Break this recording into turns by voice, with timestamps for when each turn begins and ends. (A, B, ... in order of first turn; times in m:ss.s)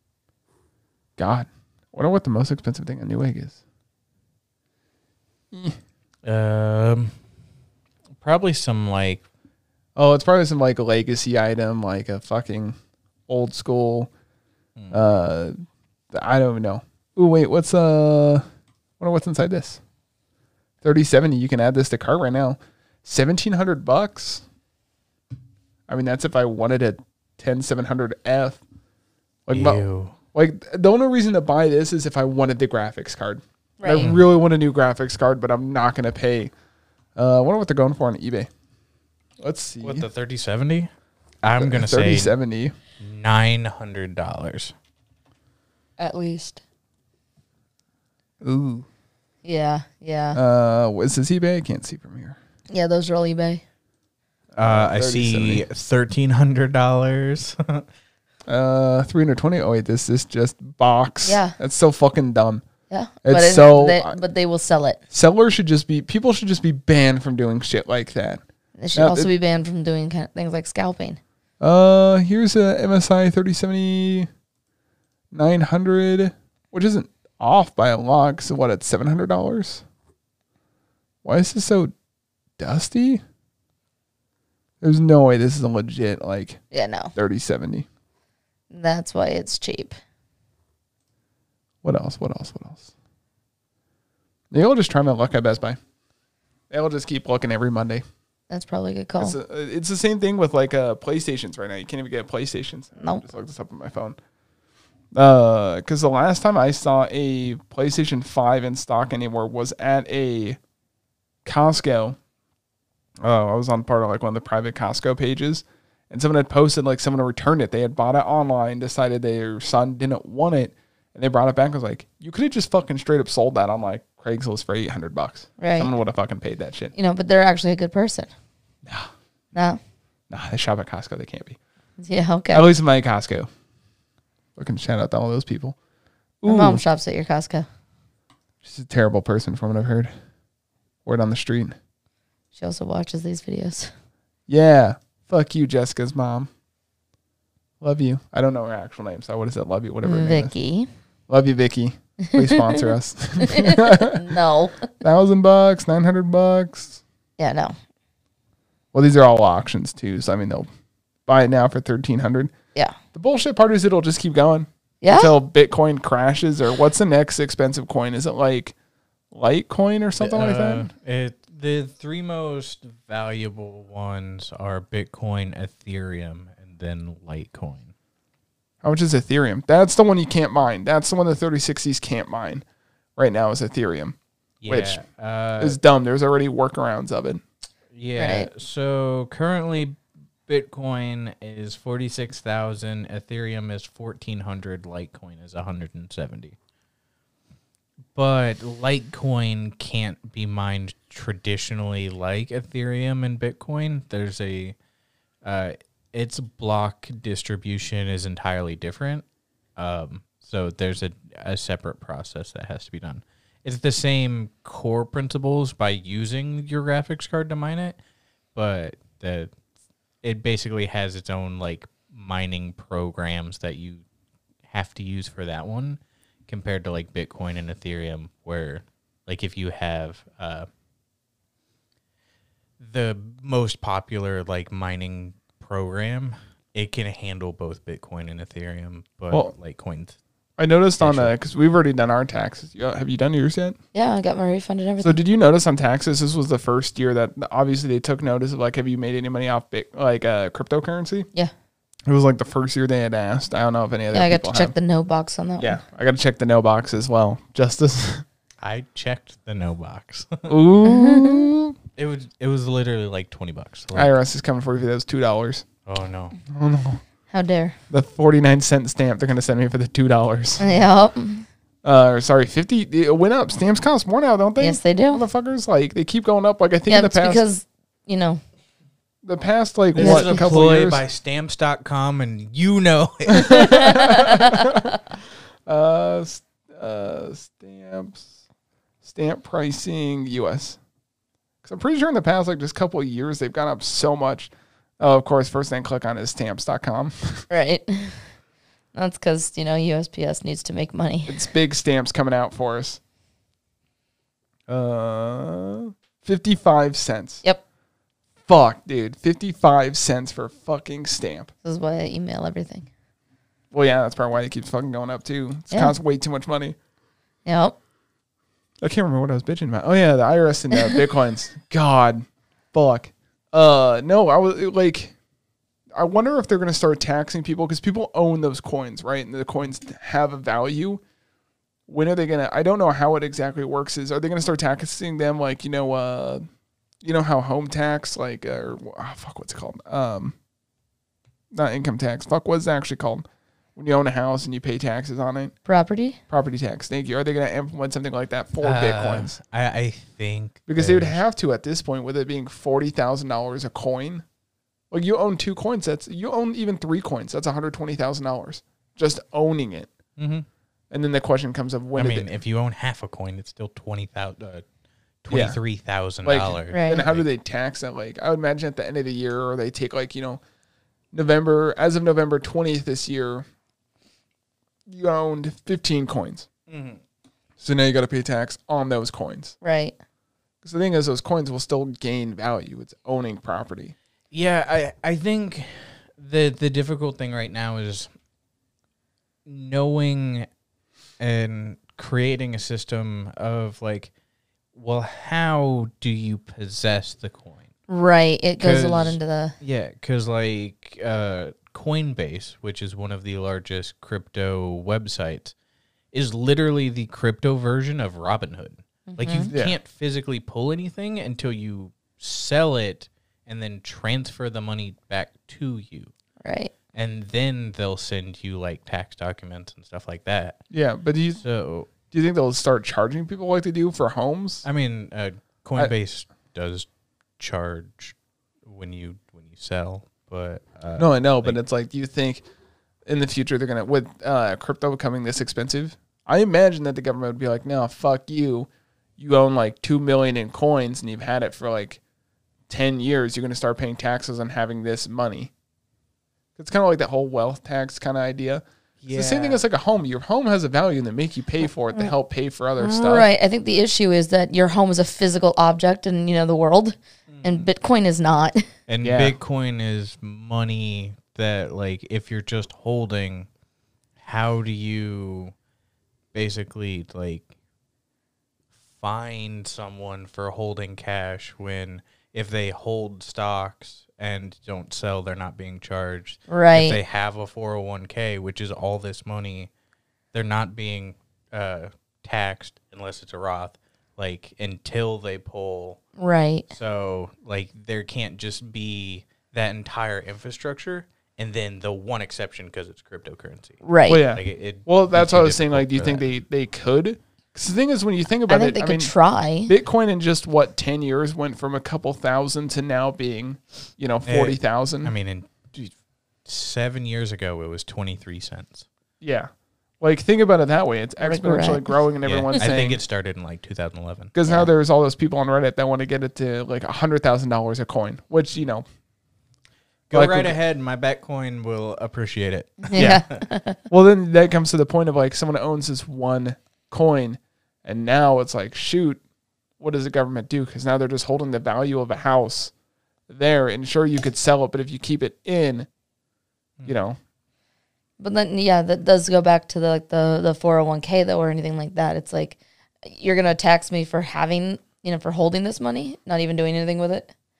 0:01.2-0:03.6 A
0:05.5-0:05.8 A
0:06.2-0:07.2 B
0:08.2-0:09.2 B
0:10.0-0:12.8 A
0:13.3-0:14.1 A
0:14.9-0:15.6 A
0:16.1-0:18.4 A
0:19.0-0:19.8 A
0:20.8-0:24.4 A
0:25.9-0:28.6 A
0:29.5-0:29.8 A
0:29.5-0:30.2 B
0:30.3-0:36.5 A
0:33.8-0:34.1 C
0:34.0-0:34.2 B
0:37.2-0:38.5 A
0:39.4-0:40.1 A
0:39.8-0:40.9 B
0:41.4-0:42.3 B
0:41.6-0:42.7 A
0:43.0-0:44.7 B
0:46.0-0:46.6 C
0:48.4-0:48.9 A
0:49.4-0:50.4 C
0:50.3-0:52.4 A
0:52.7-0:53.6 C
0:54.6-0:55.7 A
0:54.6-0:57.8 B
0:58.5-1:02.6 A
1:01.2-1:01.6 C
1:02.9-1:05.0 C
1:03.2-1:04.2 A
1:05.1-1:08.4 A
1:08.8-1:11.2 C
1:09.0-1:09.3 A
1:11.6-1:14.3 A
1:15.3-1:19.8 A
1:21.2-1:21.9 A
1:22.6-1:23.2 A
1:24.8-1:26.6 A
1:26.7-1:27.1 C
1:27.2-1:27.9 A
1:28.7-1:29.9 C
1:31.8-1:32.9 A
1:34.5-1:35.8 A
1:36.7-1:38.0 A
1:38.5-1:39.4 C
1:39.2-1:44.2 A
1:43.0-1:43.2 C
1:45.1-1:50.6 A
1:51.4-1:52.2 A
1:53.2-2:06.9 A
2:05.6-2:05.9 C
2:06.9-2:08.3 C
2:08.8-2:09.1 A
2:09.5-2:09.8 C
2:10.3-2:11.6 A
2:12.0-2:12.7 C
2:12.5-2:13.5 A
2:14.6-2:15.8 A
2:16.4-2:16.8 A
2:16.4-2:17.7 C
2:18.6-2:20.1 A
2:21.0-2:21.8 A
2:22.5-2:23.9 C
2:24.5-2:26.5 A
2:27.8-2:30.5 A
2:30.0-2:30.9 C
2:31.3-2:34.4 A
2:32.2-2:34.9 C
2:35.0-2:37.0 A
2:37.4-2:37.8 C
2:38.9-2:40.7 A
2:41.3-2:42.5 A
2:43.1-2:48.8 A
2:45.0-2:45.4 C
2:49.3-2:50.9 A
2:50.2-2:57.9 B
2:58.8-3:02.6 A
3:03.2-3:04.2 A
3:04.6-3:05.8 B
3:04.7-3:05.0 A
3:05.6-3:07.4 A
3:07.9-3:16.6 B
3:08.2-3:08.5 C
3:18.2-3:24.8 B
3:25.4-3:29.2 B
3:29.8-3:38.0 B
3:38.6-3:39.5 B
3:40.2-3:44.0 B
3:44.7-3:50.7 B
3:52.8-4:00.2 B
4:00.6-4:03.8 A
4:01.0-4:01.3 B
4:03.9-4:05.2 C
4:05.0-4:11.3 A
4:12.1-4:14.7 A
4:14.1-4:15.8 C
4:15.6-4:18.2 A
4:18.6-4:20.6 B
4:20.5-4:21.8 A
4:20.8-4:21.5 C
4:22.0-4:24.1 B
4:23.9-4:25.7 A
4:25.9-4:26.4 B
4:26.5-4:27.0 A
4:27.3-4:27.8 C
4:27.9-4:30.7 A
4:30.6-4:31.5 C
4:31.8-4:37.4 A
4:34.6-4:35.2 C
4:36.9-4:38.4 C
4:39.2-4:41.0 A
4:39.9-4:44.0 B
4:40.0-4:40.4 C
4:43.3-4:45.0 A
4:43.5-4:44.9 C
4:45.7-4:48.3 A
4:49.0-4:50.8 A
4:51.6-4:57.5 A
4:57.5-4:58.3 C
4:58.9-5:01.5 C
5:01.3-5:03.0 A
5:04.7-5:07.4 A
5:08.5-5:11.5 A
5:11.6-5:12.9 C
5:13.7-5:16.8 A
5:17.4-5:17.8 C
5:18.8-5:25.2 A
5:26.0-5:31.0 A
5:31.9-5:36.4 A
5:37.0-5:40.4 A
5:41.5-5:43.2 A
5:43.8-5:45.5 A
5:45.7-5:46.2 C
5:46.3-5:49.4 A
5:48.6-5:51.2 B
5:50.7-5:54.2 A
5:54.9-5:59.9 A
6:00.2-6:00.5 B
6:00.9-6:02.3 A
6:02.0-6:04.7 B
6:05.2-6:07.2 B
6:05.3-6:05.6 A
6:06.2-6:10.4 A
6:06.7-6:07.0 C
6:11.1-6:13.5 A
6:14.9-6:16.5 A
6:16.7-6:17.0 B
6:17.6-6:19.6 A
6:19.6-6:20.0 C
6:20.6-6:24.0 A
6:24.3-6:28.1 B
6:29.5-6:30.5 B
6:31.2-6:34.1 B
6:34.8-6:37.7 B
6:37.9-6:39.6 C
6:38.6-6:45.5 B
6:46.1-6:56.1 B
6:49.1-6:49.5 C
6:49.5-6:49.8 A
6:56.4-6:56.7 C
6:56.9-7:00.6 B
7:00.7-7:01.4 A
7:01.4-7:01.9 B
7:02.1-7:04.7 A
7:04.6-7:06.9 B
7:07.4-7:08.2 B
7:08.7-7:11.6 B
7:11.0-7:12.4 A
7:13.1-7:22.0 A
7:22.7-7:25.5 A
7:26.6-7:33.3 A
7:29.0-7:29.6 B
7:32.8-7:38.7 C
7:37.3-7:37.7 B
7:38.9-7:43.5 B
7:39.0-7:39.4 A
7:44.2-7:45.5 B
7:46.3-7:47.5 B
7:49.0-7:59.7 B
7:56.5-7:57.0 C
8:00.3-8:06.0 B
8:06.2-8:06.7 C
8:06.7-8:16.2 B
8:13.8-8:14.2 C
8:14.1-8:19.1 A
8:18.5-8:19.7 C
8:19.7-8:25.1 A
8:24.3-8:25.9 B
8:26.4-8:28.9 B
8:29.2-8:33.0 A
8:31.2-8:32.0 C
8:32.2-8:34.3 B
8:34.3-8:38.8 A
8:40.1-8:43.4 B
8:40.1-8:40.6 A
8:42.9-8:43.8 C
8:43.0-8:43.2 A
8:43.9-8:49.2 A
8:49.8-8:52.7 A
8:53.3-8:55.9 A
8:56.9-8:57.2 A
8:58.2-9:07.3 C